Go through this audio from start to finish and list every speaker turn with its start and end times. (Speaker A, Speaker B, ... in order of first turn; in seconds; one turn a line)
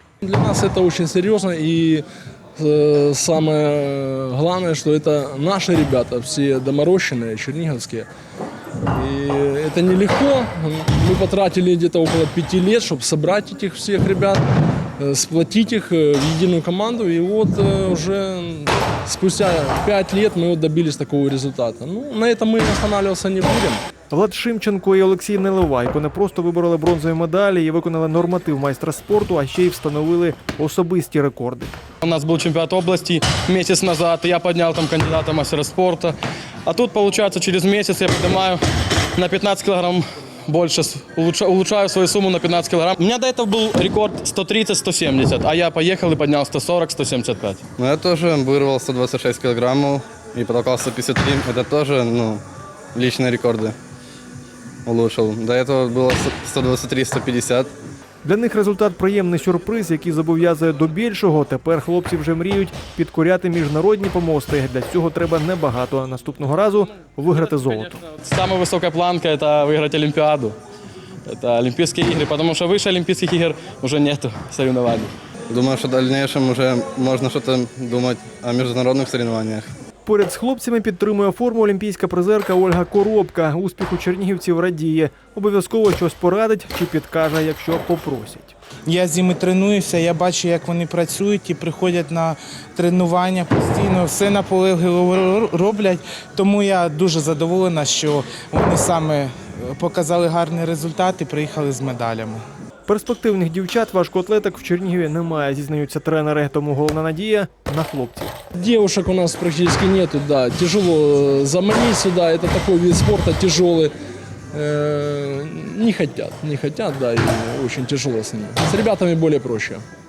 Speaker A: 0.2-2.0
Speaker A: 2.6-8.1
Speaker A: 8.9-14.4
Speaker A: 15.0-23.8
Speaker B: 24.1-31.8
Speaker C: 32.0-36.1
Speaker C: 36.6-38.6
Speaker C: 39.1-47.6
Speaker D: 47.8-52.4
Speaker D: 52.9-53.7
Speaker D: 54.8-57.7
Speaker B: 58.2-68.0
Speaker C: 68.0-70.5
Speaker C: 71.2-75.1
Speaker D: 75.5-79.7
Speaker B: 80.0-88.5
Speaker E: 88.9-102.4
Speaker B: 102.9-108.3
Speaker A: 108.5-113.9
Speaker A: 114.5-119.8